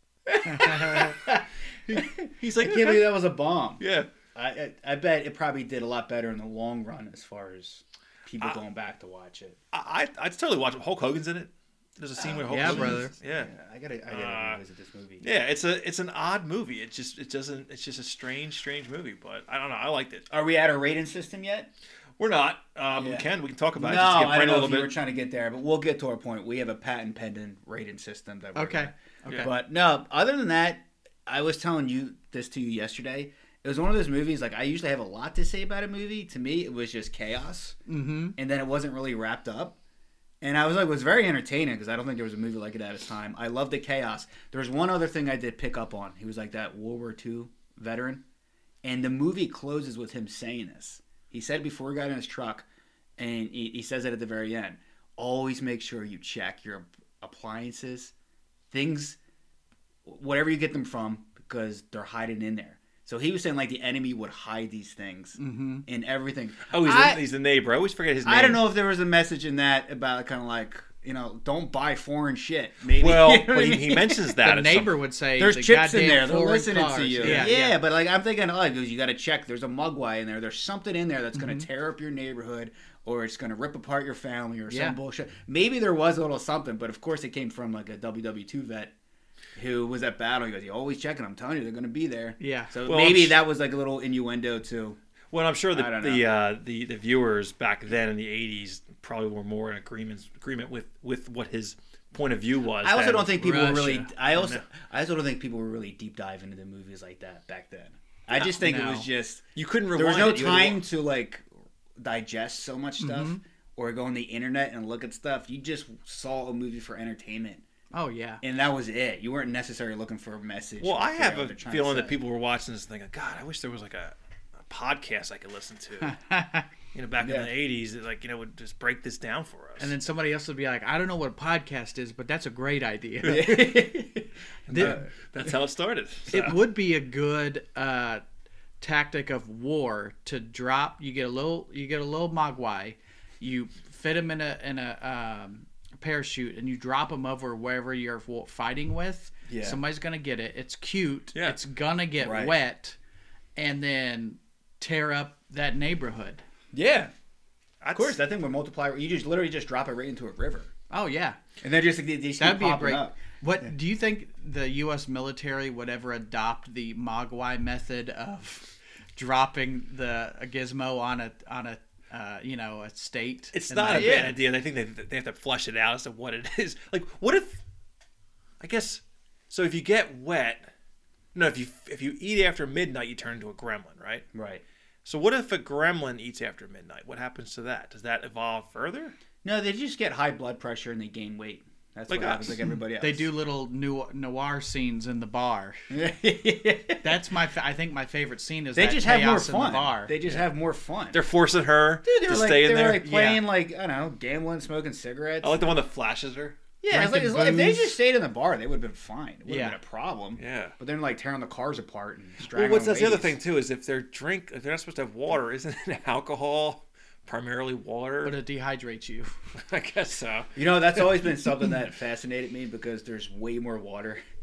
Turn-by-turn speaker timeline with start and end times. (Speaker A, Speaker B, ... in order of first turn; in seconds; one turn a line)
Speaker A: 0.3-3.8
Speaker B: 2.3-3.2
Speaker B: 3.8-4.1
Speaker A: 4.3-9.6
Speaker B: 9.7-13.5
Speaker A: 12.2-15.2
Speaker C: 12.5-13.1
Speaker B: 14.1-14.6
Speaker B: 15.2-20.2
Speaker A: 20.3-21.7
Speaker B: 22.2-24.9
Speaker A: 22.9-37.8
Speaker C: 28.5-29.5
Speaker C: 37.9-38.4
Speaker A: 38.4-39.8
Speaker A: 40.4-48.2
Speaker A: 48.8-52.6
Speaker A: 53.2-58.1
Speaker A: 58.7-59.2
Speaker A: 60.0-67.2
Speaker C: 65.4-65.8
Speaker B: 66.7-68.6
Speaker A: 68.2-74.4
Speaker B: 73.0-75.0
Speaker C: 74.4-77.8
Speaker A: 75.4-88.9
Speaker B: 77.2-77.5
Speaker C: 81.3-81.7
Speaker C: 84.7-85.0
Speaker A: 89.5-95.0
Speaker C: 92.4-92.7
Speaker B: 92.8-93.4
Speaker B: 95.3-103.3
Speaker A: 95.7-96.2
Speaker A: 102.8-111.5
Speaker C: 103.3-104.1
Speaker B: 104.3-104.6
Speaker C: 108.4-109.1
Speaker B: 109.5-110.8
Speaker A: 112.0-117.6
Speaker C: 113.0-113.4
Speaker C: 117.9-118.4
Speaker A: 118.4-122.2
Speaker B: 120.8-126.2
Speaker C: 126.0-126.7
Speaker B: 126.9-129.9
Speaker A: 127.2-127.5
Speaker C: 129.8-133.8
Speaker A: 133.2-135.1
Speaker B: 134.7-136.6
Speaker C: 134.7-135.0
Speaker C: 136.3-138.2
Speaker C: 138.8-153.0
Speaker A: 149.5-149.8
Speaker A: 152.2-152.5
Speaker C: 153.6-156.4
Speaker A: 156.7-157.1
Speaker B: 157.8-158.2
Speaker A: 157.9-160.7
Speaker C: 160.9-161.4
Speaker A: 161.6-163.7
Speaker C: 162.4-174.3
Speaker B: 173.5-177.6
Speaker A: 173.9-174.3
Speaker B: 178.6-180.7
Speaker B: 181.3-184.2
Speaker A: 184.3-184.6
Speaker B: 185.0-189.2
Speaker A: 189.4-193.3
Speaker B: 192.1-192.6
Speaker C: 193.0-195.8
Speaker A: 195.9-197.1
Speaker C: 197.0-200.1
Speaker A: 198.7-201.2
Speaker B: 201.1-203.0
Speaker A: 202.0-205.7
Speaker C: 203.0-203.4
Speaker B: 205.4-206.6
Speaker A: 206.8-213.3
Speaker C: 206.9-208.0
Speaker C: 209.5-209.8
Speaker B: 210.4-210.7
Speaker B: 212.4-218.4
Speaker C: 218.2-219.3
Speaker B: 219.6-221.0
Speaker A: 220.6-224.2